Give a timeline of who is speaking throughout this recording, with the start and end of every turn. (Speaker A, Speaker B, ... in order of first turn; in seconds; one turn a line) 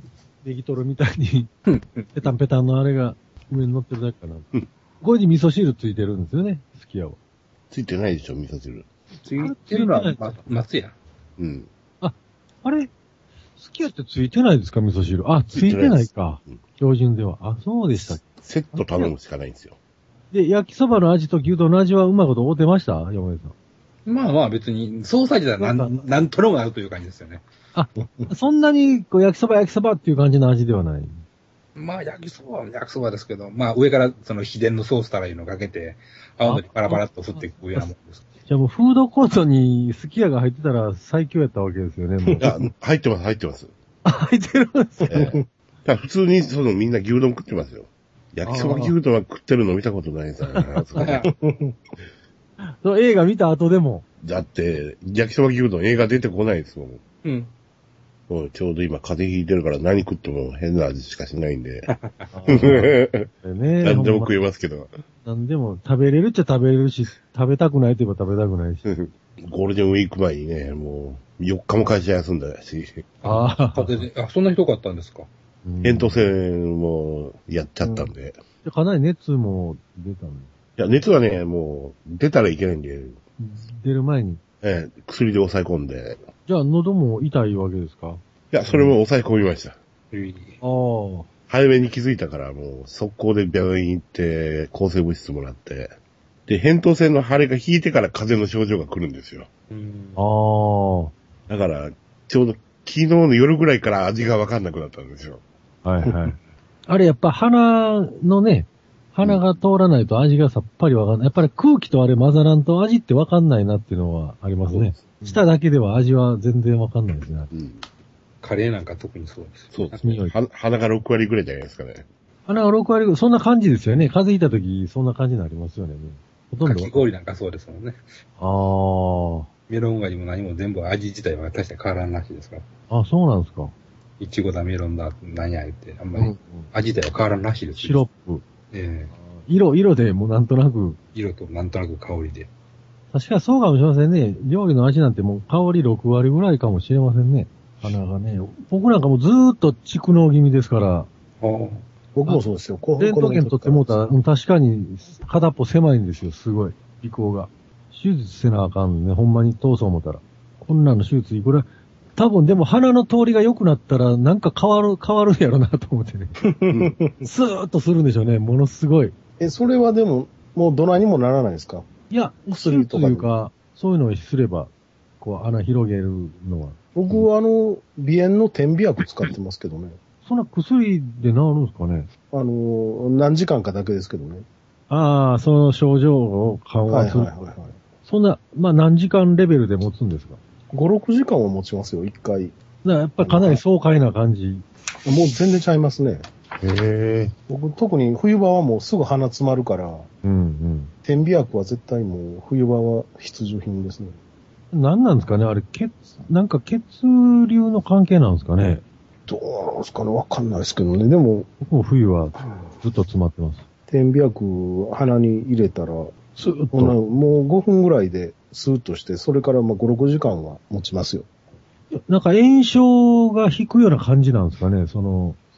Speaker A: 0.4-1.5
Speaker B: 1.7-2.3
Speaker A: 2.1-4.5
Speaker A: 5.0-7.2
Speaker C: 7.7-8.9
Speaker B: 9.2-11.0
Speaker A: 9.4-10.4
Speaker C: 11.4-11.7
Speaker A: 12.0-12.9
Speaker A: 13.6-19.1
Speaker C: 15.5-16.6
Speaker C: 18.4-19.8
Speaker A: 20.3-23.5
Speaker B: 24.1-27.4
Speaker A: 25.6-26.1
Speaker A: 27.8-31.2
Speaker D: 28.0-28.3
Speaker B: 31.8-38.3
Speaker A: 36.4-37.9
Speaker A: 38.5-42.5
Speaker C: 42.4-43.7
Speaker A: 44.0-45.3
Speaker C: 45.1-51.3
Speaker D: 45.1-45.5
Speaker A: 48.4-49.0
Speaker B: 51.0-51.3
Speaker D: 51.2-51.8
Speaker A: 52.6-54.1
Speaker C: 54.2-57.0
Speaker B: 57.2-57.5
Speaker C: 58.3-61.9
Speaker B: 61.9-62.3
Speaker A: 62.3-64.3
Speaker C: 62.5-63.3
Speaker C: 63.8-65.0
Speaker A: 65.2-68.9
Speaker C: 68.9-73.1
Speaker B: 73.2-75.3
Speaker A: 73.2-74.1
Speaker A: 75.7-76.3
Speaker C: 75.8-78.4
Speaker A: 78.6-80.5
Speaker C: 80.8-83.2
Speaker A: 83.4-84.4
Speaker C: 84.6-86.2
Speaker A: 86.5-89.0
Speaker C: 88.5-89.8
Speaker B: 90.1-90.6
Speaker A: 90.6-91.3
Speaker C: 91.5-96.0
Speaker C: 96.5-99.5
Speaker B: 99.7-100.2
Speaker A: 100.2-101.1
Speaker C: 101.5-105.4
Speaker A: 105.8-117.5
Speaker C: 114.7-115.4
Speaker C: 117.5-117.8
Speaker B: 118.4-120.0
Speaker C: 119.7-122.1
Speaker A: 120.0-120.3
Speaker A: 122.5-127.1
Speaker B: 126.6-128.1
Speaker A: 128.4-129.5
Speaker B: 129.7-132.7
Speaker A: 132.9-133.7
Speaker B: 134.2-138.0
Speaker A: 136.2-136.7
Speaker A: 137.8-138.4
Speaker B: 138.7-139.1
Speaker A: 139.1-141.0
Speaker B: 141.2-142.5
Speaker A: 143.1-151.1
Speaker B: 151.4-151.8
Speaker D: 152.2-154.0
Speaker A: 153.0-166.4
Speaker D: 166.4-167.2
Speaker A: 167.2-169.2
Speaker D: 169.4-171.9
Speaker A: 172.1-176.8
Speaker D: 172.5-173.3
Speaker D: 176.9-180.0
Speaker A: 180.2-182.1
Speaker D: 182.3-184.5
Speaker A: 184.9-187.3
Speaker D: 186.9-187.8
Speaker A: 188.1-190.4
Speaker D: 190.7-192.6
Speaker A: 192.8-194.7
Speaker D: 193.2-193.6
Speaker D: 195.1-196.3
Speaker A: 196.6-197.3
Speaker D: 197.5-200.1
Speaker A: 200.2-200.9
Speaker D: 201.0-204.2
Speaker A: 204.7-208.8
Speaker D: 209.3-211.5
Speaker A: 211.6-213.6
Speaker D: 212.4-212.7
Speaker D: 213.9-216.2
Speaker A: 216.4-217.0
Speaker D: 216.7-221.3
Speaker A: 221.9-225.4